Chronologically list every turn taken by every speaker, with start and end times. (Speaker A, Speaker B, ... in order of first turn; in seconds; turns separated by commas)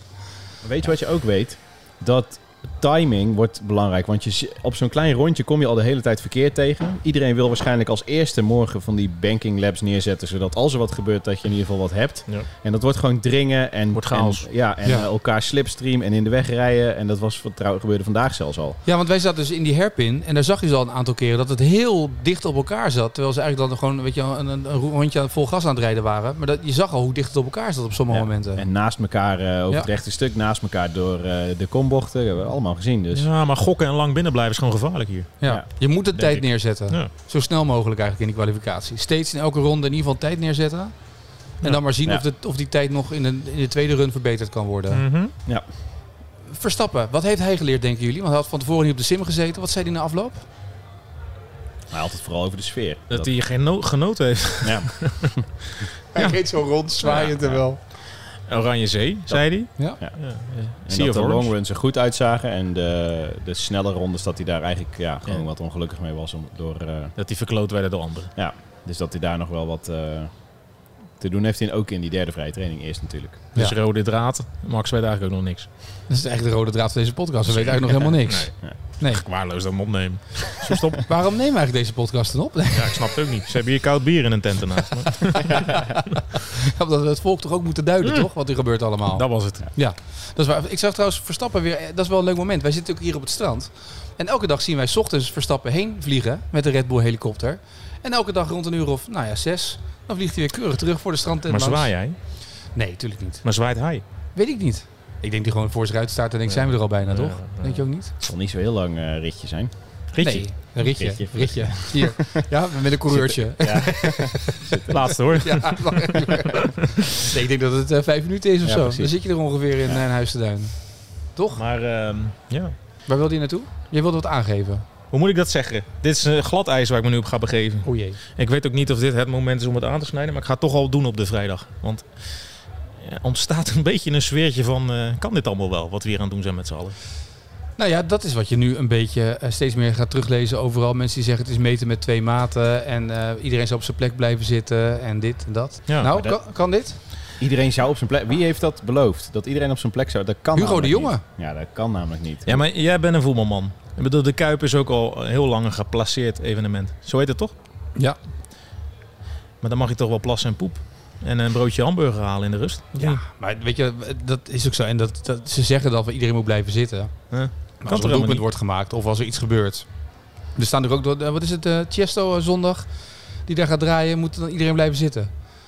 Speaker A: 0.6-18.8, Speaker B: 13.9-14.5, Speaker C: 18.9-28.7, Speaker A: 28.1-33.3, Speaker B: 33.1-35.3, Speaker C: 35.4-41.0, Speaker B: 36.2-37.1, Speaker C: 41.5-45.0, Speaker B: 44.9-45.3, Speaker C: 46.5-50.5, Speaker A: 51.9-53.3, Speaker B: 53.1-56.4, Speaker A: 54.6-55.4, Speaker C: 56.1-57.8, Speaker B: 57.0-57.8, Speaker B: 58.5-61.5, Speaker A: 59.3-60.2, Speaker A: 60.9-67.1, Speaker B: 67.2-68.3, Speaker A: 68.4-70.3, Speaker A: 71.2-73.4, Speaker B: 73.6-75.7, Speaker C: 76.1-79.2, Speaker B: 77.5-81.0, Speaker C: 81.0-83.1, Speaker B: 82.7-85.7, Speaker A: 85.5-85.8, Speaker C: 85.5-101.9, Speaker B: 89.1-89.7, Speaker B: 101.5-102.2, Speaker C: 102.7-103.5, Speaker B: 103.4-104.0, Speaker C: 104.3-108.1, Speaker B: 106.5-107.8, Speaker A: 108.2-109.7, Speaker B: 110.1-110.7, Speaker C: 110.2-114.6, Speaker A: 111.0-112.3, Speaker A: 113.1-115.1, Speaker B: 114.9-116.5, Speaker C: 115.3-121.6, Speaker A: 118.6-119.1, Speaker B: 121.6-122.7, Speaker C: 123.1-124.8, Speaker B: 125.1-137.0, Speaker C: 127.8-128.2, Speaker C: 137.8-147.0, Speaker A: 146.1-146.4, Speaker A: 147.4-152.6, Speaker C: 150.6-151.2, Speaker B: 152.5-157.5, Speaker B: 159.6-163.2, Speaker C: 163.0-169.9, Speaker B: 167.3-168.4, Speaker C: 170.6-172.9, Speaker C: 173.5-175.3